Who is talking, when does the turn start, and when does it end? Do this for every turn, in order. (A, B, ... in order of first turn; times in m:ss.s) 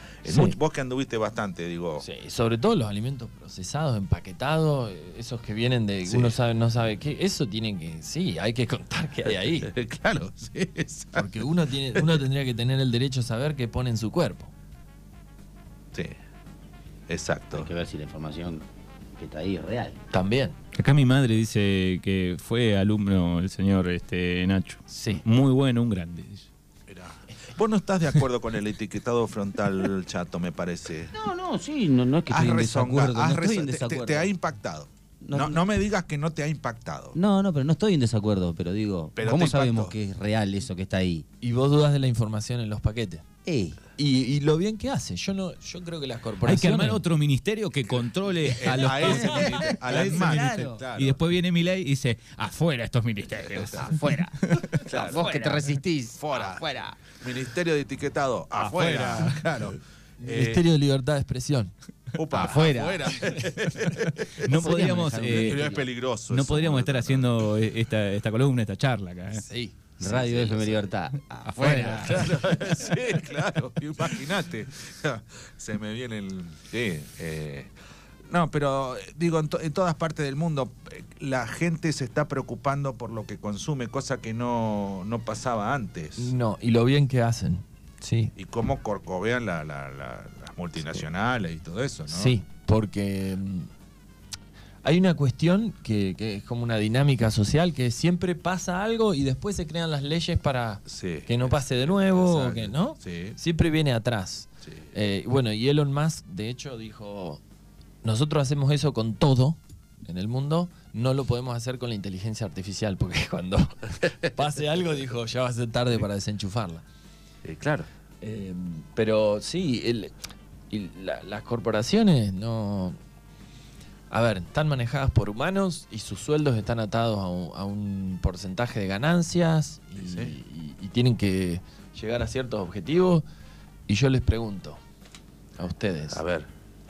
0:00.2-0:02.0 A
0:00.2-0:00.6 B
0:02.0-0:09.7 B
0:06.1-0:06.3 A
0:09.6-0:11.4 A
0:11.2-0:14.5 B
0:17.1-0:17.7 A
0:17.5-0:20.0 C
0:20.1-0:20.6 B
0:20.7-0:26.5 D
0:24.9-0:25.2 B
0:26.9-0:31.1 A
0:31.1-0:34.3 C
0:32.3-0:37.2 A
0:35.2-0:35.6 C
0:37.2-0:41.2 C
0:39.2-0:39.9 A
0:41.4-0:43.2 B
0:43.4-0:43.8 C
0:44.0-0:47.0 B
0:46.4-0:54.8 D
0:48.4-0:51.2 A
0:49.0-0:49.4 B
0:49.1-0:50.8 C
0:53.8-0:57.0 C
0:54.8-0:55.6 B
0:54.9-0:55.3 A
0:56.2-1:00.6 A
0:58.6-0:59.6 D
1:00.2-1:01.7 B
1:02.2-1:04.5 A
1:02.3-1:03.2 C
1:03.2-1:03.4 B
1:04.3-1:05.7 D
1:04.3-1:05.9 C
1:05.2-1:07.4 A
1:06.3-1:09.4 D
1:09.3-1:10.9 B
1:10.0-1:12.3 C
1:11.5-1:12.9 B
1:11.6-1:11.9 D
1:11.6-1:17.7 A
1:18.3-1:26.3 A
1:26.2-1:28.4 B
1:28.4-1:32.4 A
1:32.1-1:33.7 B
1:34.8-1:47.4 B
1:40.9-1:43.4 A
1:48.0-1:56.8 B
1:57.4-1:57.9 A
1:58.2-2:00.1 B
2:00.7-2:03.0 B
2:04.1-2:13.2 B
2:10.0-2:10.3 A
2:13.9-2:14.8 B
2:15.6-2:16.2 B
2:16.1-2:16.5 A